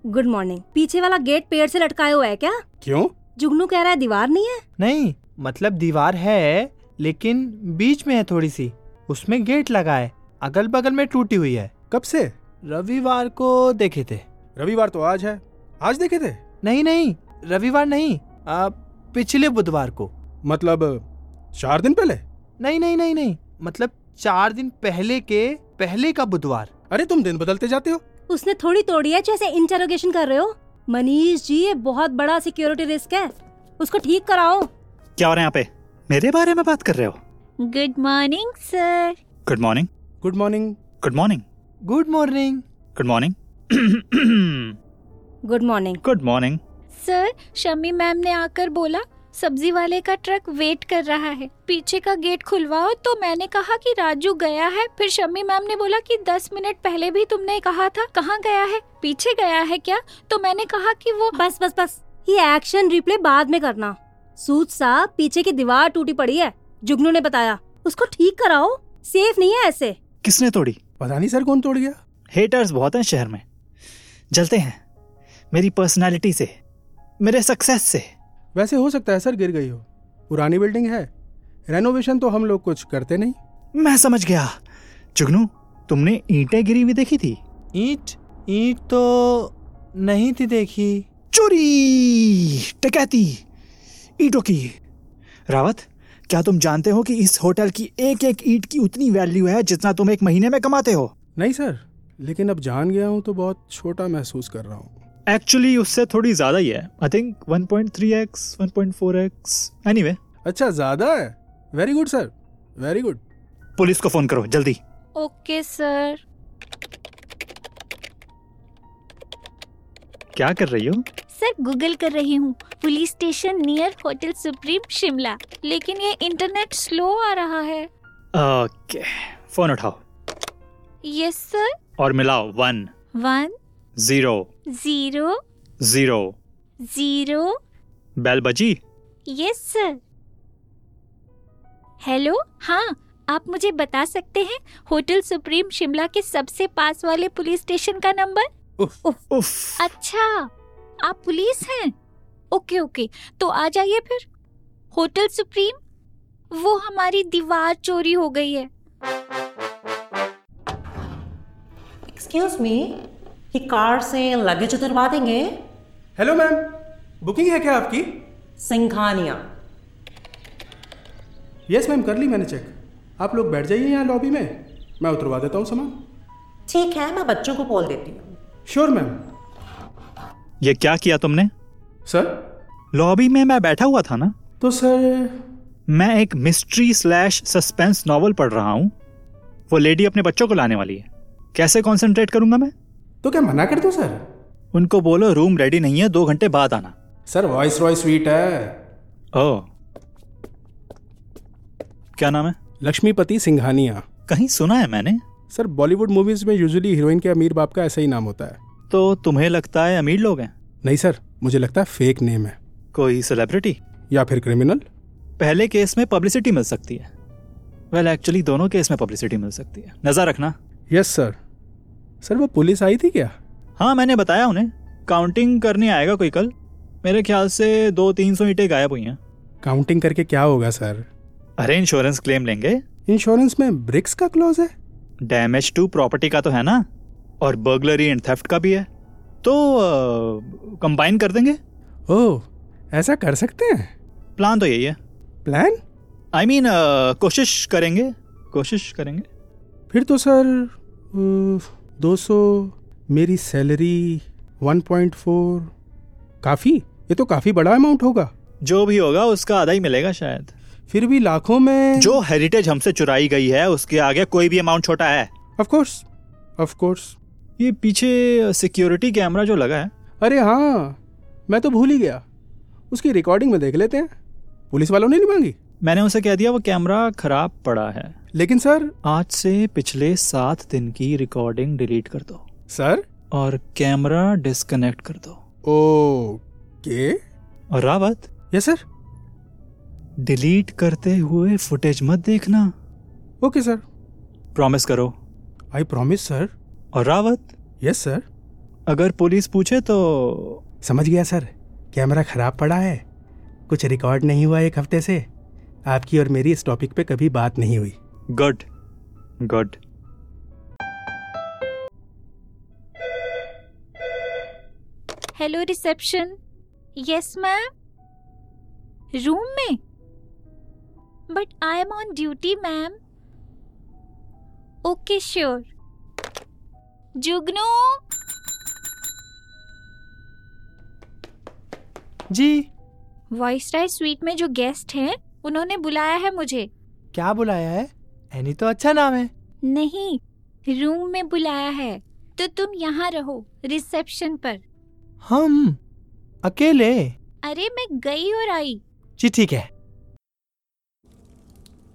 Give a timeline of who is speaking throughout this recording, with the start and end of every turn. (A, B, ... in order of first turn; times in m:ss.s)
0:00.1-0:02.6 A
0:02.8-0:03.1 B
0:03.4-0:04.6 A
0:04.8-0:11.7 C
0:11.9-0:12.3 B
0:12.6-0:14.2 C
0:14.6-0:16.4 B
0:16.6-0:20.1 C
0:20.4-0:22.2 B
0:22.6-0:26.7 C
0:26.9-0:28.0 B
0:28.3-0:34.7 A
0:35.2-0:37.2 D
0:37.6-0:39.2 E
0:39.5-0:39.9 D
0:40.2-0:40.8 B
0:41.0-0:41.4 D
0:41.8-0:42.6 C
0:42.9-0:44.7 D
0:45.4-0:46.0 A
0:46.0-0:46.6 D
0:46.9-1:01.4 E
1:01.3-1:10.0 A
1:10.2-1:10.8 D
1:11.0-1:11.9 B
1:12.3-1:13.4 D
1:14.3-1:14.8 D
1:15.5-1:16.5 D
1:17.2-1:18.1 D
1:18.5-1:21.1 B
1:21.7-1:23.4 B
1:23.7-1:24.5 D
1:25.1-1:27.4 D
1:27.7-1:31.0 C
1:31.3-1:33.4 D
1:34.2-1:34.7 D
1:35.5-1:41.1 D
1:41.4-1:44.9 B
1:45.3-1:50.2 D
1:50.4-1:53.2 B
1:53.8-1:54.8 D
1:55.2-1:56.2 E
2:00.3-2:01.0 D
2:01.3-2:07.9 E
2:08.3-2:10.0 D
2:11.0-2:11.7 E
2:12.0-2:12.9 D
2:13.2-2:13.5 E
2:14.0-2:14.5 D
2:14.7-2:15.4 E
2:15.8-2:16.4 D
2:16.8-2:17.6 E
2:18.2-2:18.8 D
2:19.3-2:20.0 E
2:22.0-2:28.4 E
2:29.3-2:29.9 D
2:29.8-2:30.5 E
2:31.0-2:31.9 E
2:32.5-2:34.3 E
2:34.9-2:35.8 E
2:36.5-2:38.7 E
2:42.1-2:42.9 F
2:43.5-2:45.5 F
2:46.2-2:48.1 B
2:48.6-2:49.4 F
2:51.7-2:55.9 B
2:56.7-2:58.3 F
2:58.7-2:59.2 B
3:00.6-3:01.5 D
3:02.9-3:04.3 D
3:04.6-3:05.3 B
3:05.9-3:08.9 D
3:09.7-3:12.7 D
3:13.2-3:14.2 B
3:14.7-3:16.9 D
3:17.3-3:18.7 B
3:19.3-3:19.7 D
3:22.2-3:22.6 D
3:22.8-3:24.0 B
3:24.3-3:25.2 D
3:25.5-3:28.6 B
3:28.9-3:30.5 D
3:30.8-3:32.6 B
3:32.9-3:33.8 D
3:34.1-3:34.8 B
3:35.4-3:37.1 D
3:37.9-3:40.5 D
3:40.9-3:41.4 B
3:42.2-3:43.3 B
3:43.8-3:49.2 D
3:49.6-3:51.0 B
3:51.6-3:52.8 D
3:53.1-3:54.7 B
3:55.2-3:56.8 D
3:57.4-3:58.9 D
3:59.4-4:01.6 D
4:02.1-4:03.9 B
4:04.4-4:05.0 D
4:05.4-4:05.8 B
4:06.3-4:09.2 D
4:09.9-4:15.7 B
4:16.4-4:18.3 B
4:18.6-4:20.5 D
4:20.9-4:22.2 B
4:22.0-4:25.3 D
4:25.6-4:26.0 B
4:26.6-4:27.1 B
4:27.6-4:29.9 D
4:30.2-4:31.0 B
4:31.5-4:32.2 B
4:32.9-4:34.1 B
4:34.7-4:35.6 B
4:35.8-4:38.1 D
4:38.3-4:38.9 B
4:39.0-4:42.4 D
4:42.7-4:43.0 B
4:43.3-4:45.4 D
4:45.6-4:47.2 B
4:47.7-4:48.3 D
4:48.5-4:48.8 B
4:50.2-4:52.7 D
4:53.4-4:53.8 B
4:54.5-4:55.1 D
4:55.7-4:56.5 B
4:56.9-4:57.5 D
4:57.8-4:58.2 B
4:58.9-5:00.6 D
5:00.8-5:03.0 B
5:03.7-5:05.3 B
5:05.9-5:07.9 B
5:08.3-5:08.6 D
5:09.4-5:09.8 D
5:15.3-5:16.3 E
5:17.0-5:17.7 E
5:19.1-5:19.8 E
5:21.3-5:23.0 E
5:24.8-5:25.7 E
5:27.2-5:28.0 E
5:32.3-5:32.7 C
5:33.3-5:36.7 E
5:37.1-5:39.3 C
5:39.6-5:44.6 E
5:45.2-5:45.8 C
5:46.4-5:47.1 C
5:47.4-5:48.8 E
5:49.2-5:49.7 C